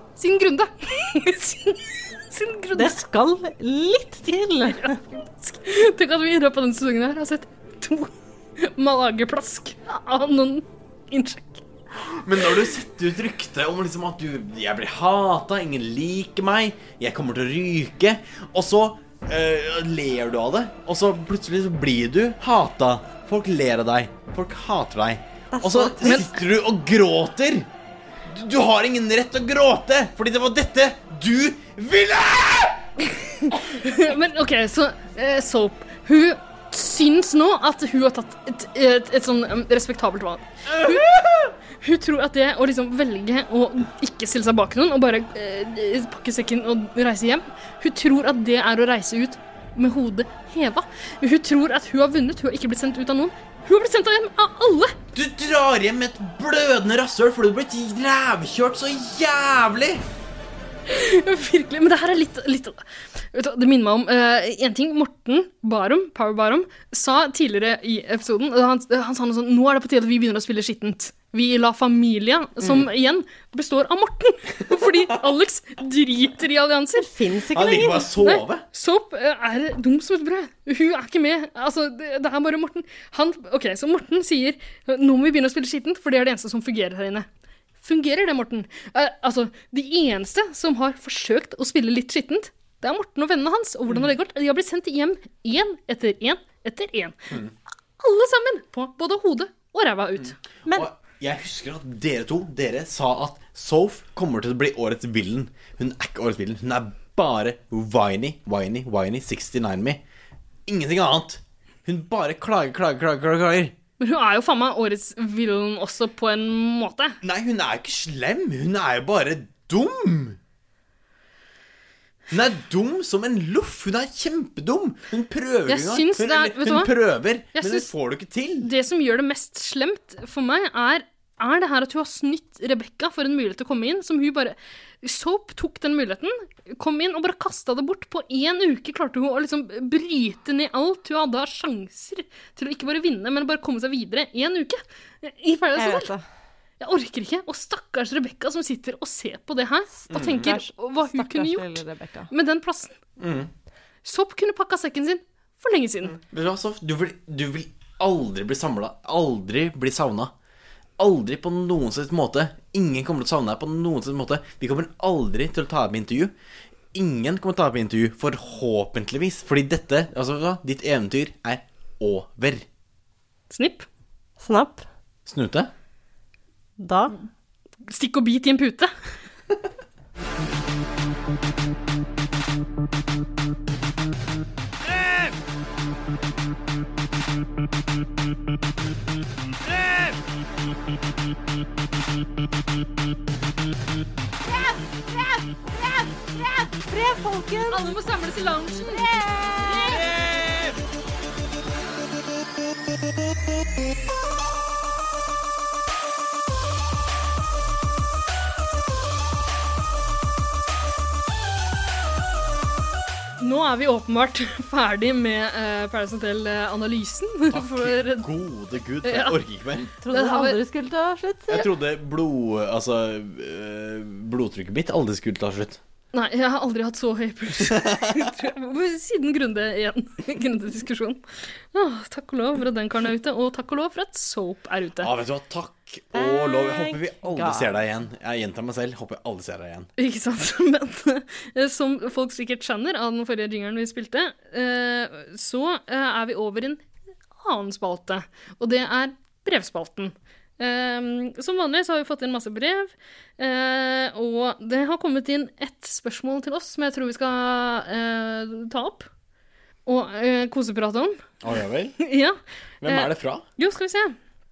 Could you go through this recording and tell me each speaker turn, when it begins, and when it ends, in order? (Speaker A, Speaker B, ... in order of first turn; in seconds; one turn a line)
Speaker A: 0.2-3.0
Speaker B: 2.7-5.0
Speaker A: 4.7-11.6
Speaker C: 12.1-27.7
Speaker B: 25.5-26.3
Speaker C: 28.3-32.9
Speaker A: 33.1-55.0
Speaker C: 40.7-41.3
Speaker C: 55.1-60.0
Speaker A: 60.9-62.8
Speaker A: 63.3-77.1
Speaker B: 77.0-78.1
Speaker C: 77.5-78.6
Speaker A: 78.2-87.3
Speaker A: 87.8-97.4
Speaker A: 98.0-100.4
Speaker C: 100.7-110.0
Speaker C: 110.7-113.7
Speaker A: 114.0-117.2
Speaker C: 117.2-120.4
Speaker C: 122.3-128.7
Speaker A: 125.7-126.9
Speaker A: 127.5-127.9
Speaker A: 128.6-146.1
Speaker B: 145.8-146.2
Speaker A: 146.8-152.9
Speaker B: 150.0-152.3
Speaker C: 150.1-150.5
Speaker C: 153.2-153.5
Speaker A: 154.1-156.2
Speaker C: 156.1-160.3
Speaker C: 161.0-166.3
Speaker C: 166.9-172.7
Speaker A: 173.5-173.9
Speaker B: 174.4-174.8
Speaker C: 175.3-175.7
Speaker B: 176.8-177.2
Speaker A: 177.9-178.9
Speaker B: 194.5-197.9
Speaker A: 197.7-199.1
Speaker B: 198.9-200.1
Speaker A: 213.4-218.3
Speaker C: 217.5-219.9
Speaker A: 219.0-219.4
Speaker B: 220.0-221.7
Speaker A: 220.1-220.6
Speaker C: 221.5-225.8
Speaker A: 226.1-231.2
Speaker C: 227.7-228.3
Speaker A: 231.7-235.1
Speaker C: 235.0-239.9
Speaker B: 236.1-237.7
Speaker A: 240.0-246.8
Speaker A: 247.4-259.1
Speaker A: 259.9-261.2
Speaker C: 261.4-262.0
Speaker A: 262.0-264.2
Speaker C: 262.8-263.4